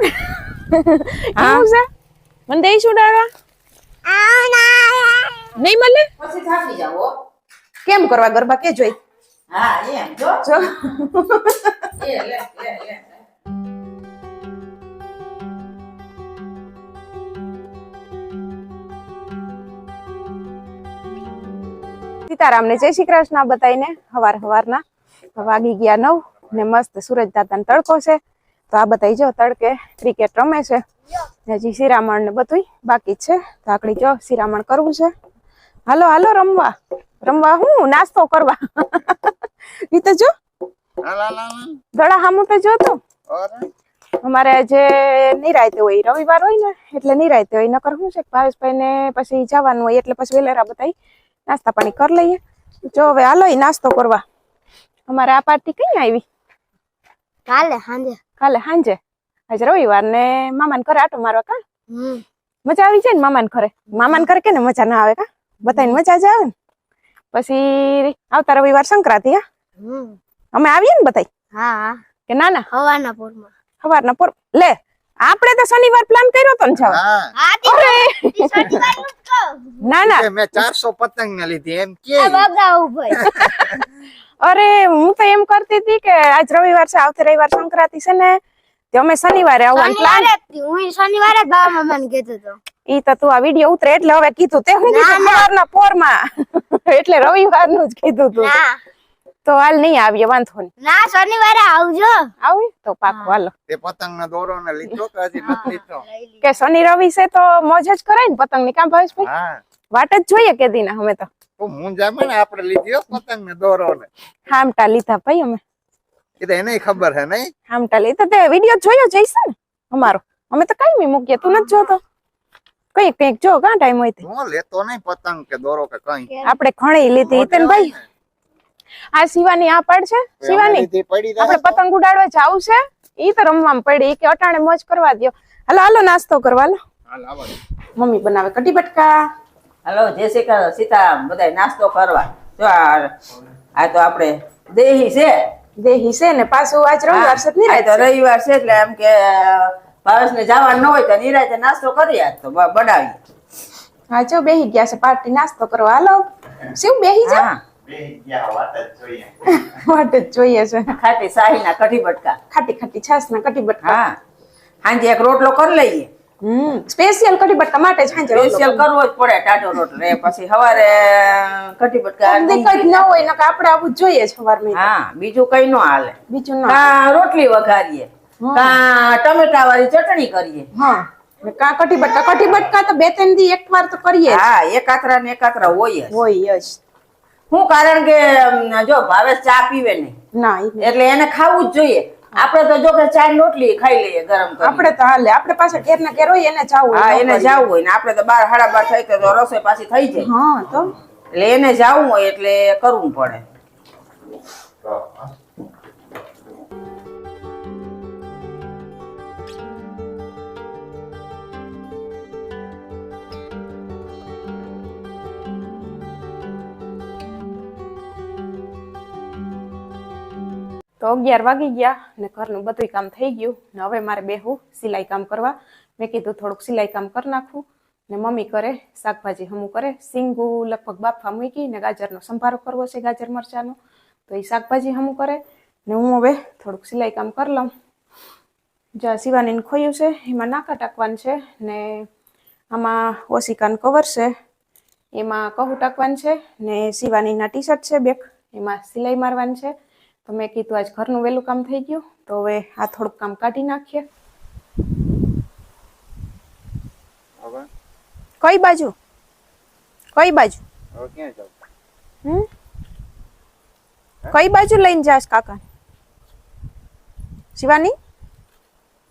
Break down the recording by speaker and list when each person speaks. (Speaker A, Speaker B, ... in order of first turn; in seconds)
Speaker A: 0.1-1.9, 2.5-3.3, 5.6-6.1, 7.9-8.9, 10.4-11.9, 22.3-24.8, 25.4-28.2, 28.7-30.8, 31.5-35.1, 35.9-39.4, 39.9-40.3, 42.0-43.0, 44.2-50.9, 51.5-54.2, 55.1-56.2, 58.4-59.0, 59.5-61.6, 62.6-66.5, 67.3-69.4, 70.5-71.3, 72.3-72.7, 73.8-77.0, 77.6-78.7, 79.8-80.3, 83.2-83.8, 84.4-88.4, 88.9-90.3, 92.9-98.6, 99.5-100.7, 102.4-103.5, 106.4-109.3, 109.9-111.3, 114.5-115.6, 117.7-122.0, 123.0-124.2, 126.4-127.9, 129.1-130.9, 131.4-136.8, 138.0-139.2, 145.8-148.1, 154.1-157.5, 159.5-160.9, 162.5-164.0, 166.4-168.9, 172.2-174.9, 176.3-176.9, 178.4-178.8, 180.8-184.4, 186.1-186.8, 190.3-190.9, 194.6-197.7, 200.2-200.9, 221.0-233.8, 234.3-237.7, 239.0-242.1, 242.7-244.3, 245.2-249.7, 250.3-254.1, 258.4-258.9, 260.2-260.6, 264.3-265.6, 267.6-267.9
Speaker B: 1.4-1.6, 6.2-7.1, 9.5-10.6, 12.0-13.1, 139.8-143.1, 143.8-145.4, 147.1-153.2, 157.2-157.6, 160.9-162.4, 163.8-164.2, 164.8-166.1, 168.3-173.1, 174.7-180.7, 184.3-186.1, 187.5-190.2, 190.8-194.9, 196.9-200.3, 201.3-203.4
Speaker C: 4.1-5.5, 57.5-58.2, 61.9-62.2, 69.8-70.2, 71.5-72.0, 72.7-73.5, 77.4-79.8, 82.2-83.3, 89.7-92.6, 94.9-95.5, 98.4-98.8, 100.8-102.3, 103.1-103.3, 105.5-106.4
Speaker D: 41.0-41.8, 43.3-43.7, 76.8-77.3, 80.0-82.5, 103.7-106.1, 109.2-109.6, 111.6-114.1, 116.4-117.5, 124.2-126.4, 127.3-128.0, 130.4-131.8, 137.1-137.6, 157.8-159.5, 204.8-205.3, 257.4-257.7, 261.0-261.5